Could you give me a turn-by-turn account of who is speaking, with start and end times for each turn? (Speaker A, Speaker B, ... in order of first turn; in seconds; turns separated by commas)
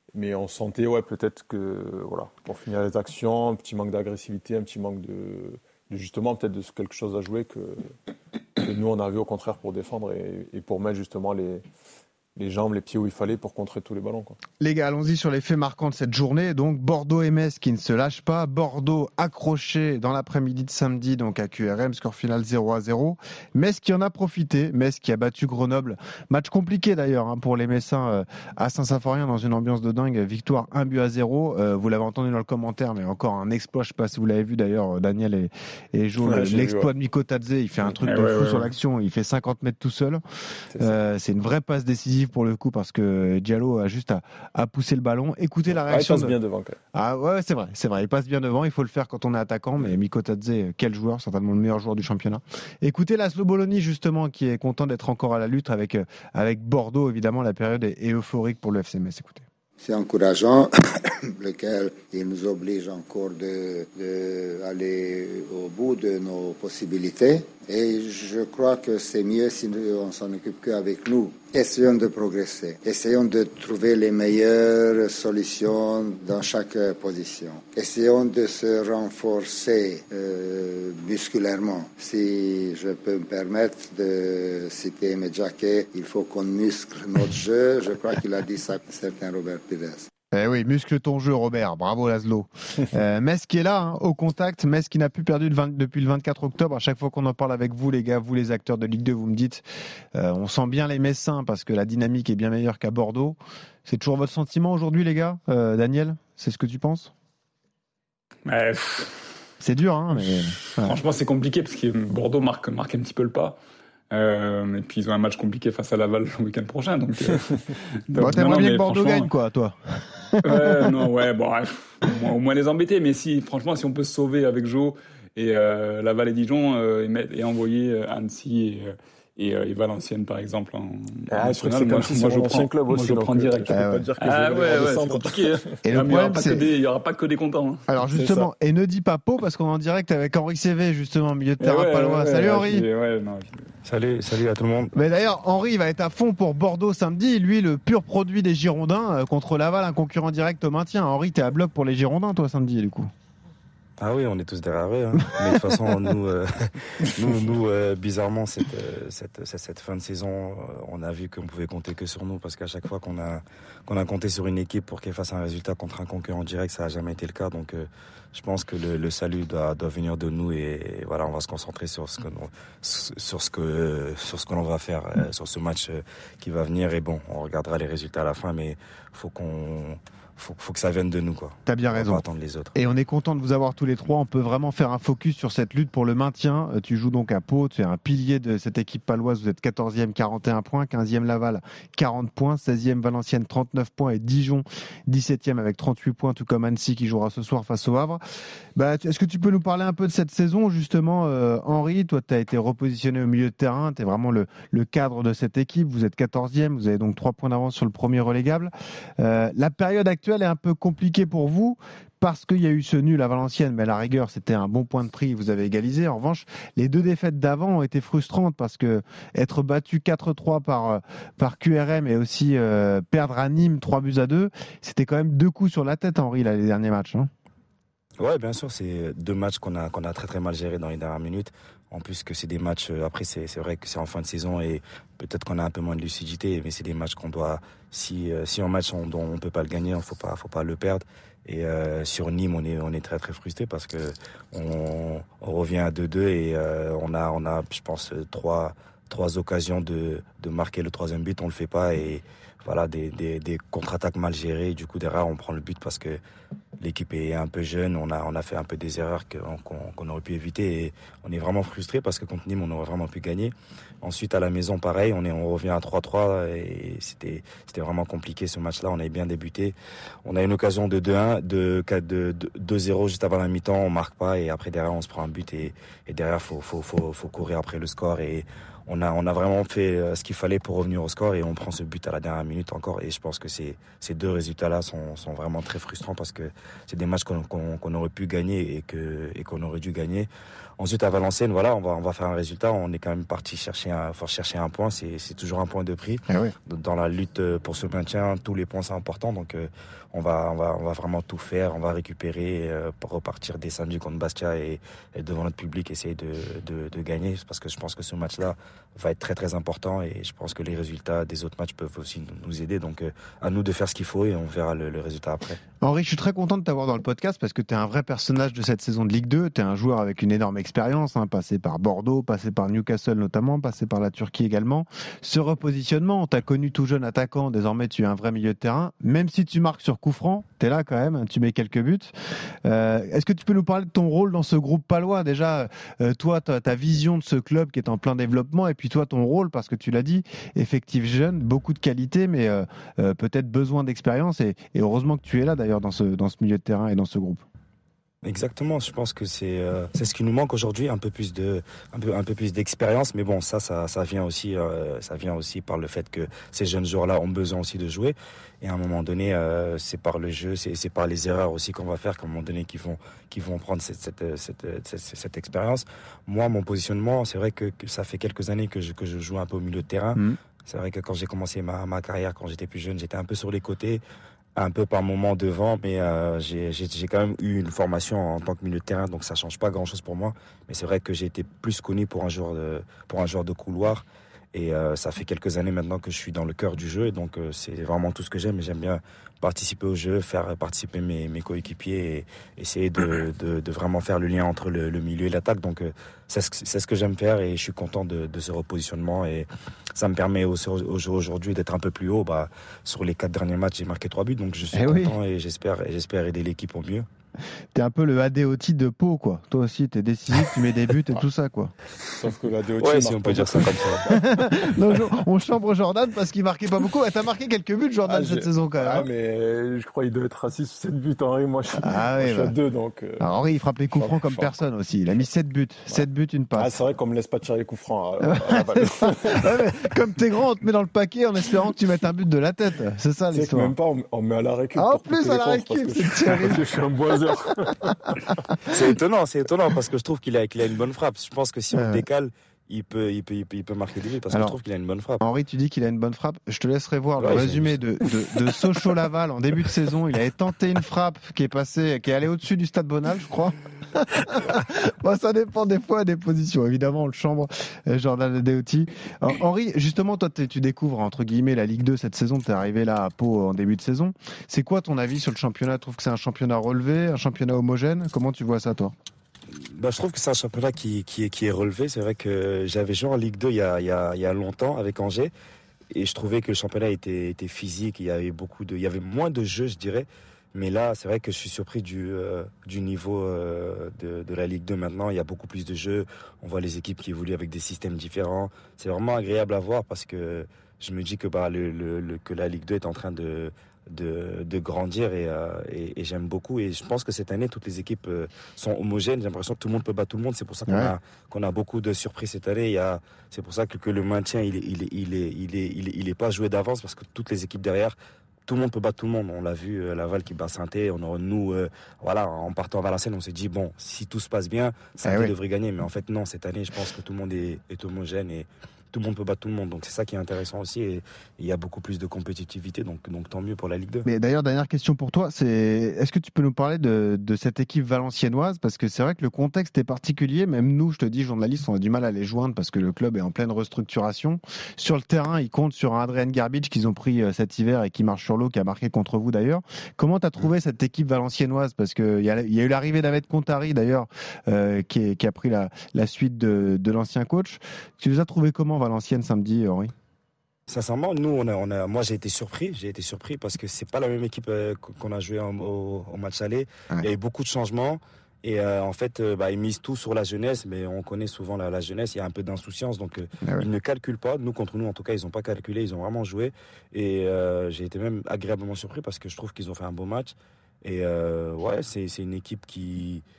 Speaker A: 0.1-7.9, Speaker A: 8.6-11.6, Speaker A: 12.4-14.4, Speaker B: 14.6-40.2, Speaker A: 36.2-36.9, Speaker C: 38.0-38.7, Speaker A: 40.7-41.0, Speaker B: 40.8-46.4, Speaker A: 45.7-46.8, Speaker B: 46.9-59.4, Speaker D: 59.8-90.1, Speaker B: 90.3-107.1, Speaker C: 108.5-109.2, Speaker B: 109.6-111.0, Speaker C: 110.8-113.6, Speaker C: 114.1-117.5, Speaker C: 118.1-119.3, Speaker B: 118.2-120.9, Speaker C: 120.4-137.9, Speaker A: 131.3-135.8, Speaker B: 133.7-134.1, Speaker B: 135.8-136.6, Speaker B: 137.9-142.9, Speaker A: 138.1-138.5, Speaker C: 141.6-143.7, Speaker E: 143.8-144.9, Speaker B: 144.9-153.1, Speaker E: 154.0-182.7, Speaker B: 181.7-182.2, Speaker B: 182.8-198.2, Speaker B: 198.8-227.3, Speaker E: 228.2-256.2, Speaker E: 256.8-315.6, Speaker B: 296.3-296.5, Speaker B: 315.8-332.1, Speaker B: 332.6-347.4, Speaker E: 348.2-374.0, Speaker E: 374.6-407.1, Speaker B: 404.7-405.1, Speaker B: 407.7-411.7, Speaker A: 412.1-414.4, Speaker E: 412.8-414.1, Speaker B: 414.3-419.1, Speaker A: 418.1-423.3, Speaker B: 421.9-422.6, Speaker B: 423.2-426.8, Speaker A: 423.9-424.6, Speaker A: 426.6-430.0, Speaker B: 428.3-433.7, Speaker A: 433.3-438.3, Speaker B: 434.8-436.6, Speaker B: 437.8-438.1, Speaker E: 438.7-445.2, Speaker B: 441.7-442.0, Speaker B: 445.2-468.9, Speaker E: 447.2-447.8, Speaker E: 469.6-475.3, Speaker E: 475.9-524.1, Speaker B: 515.0-515.3, Speaker B: 524.1-549.9, Speaker E: 550.7-573.2, Speaker B: 563.4-563.7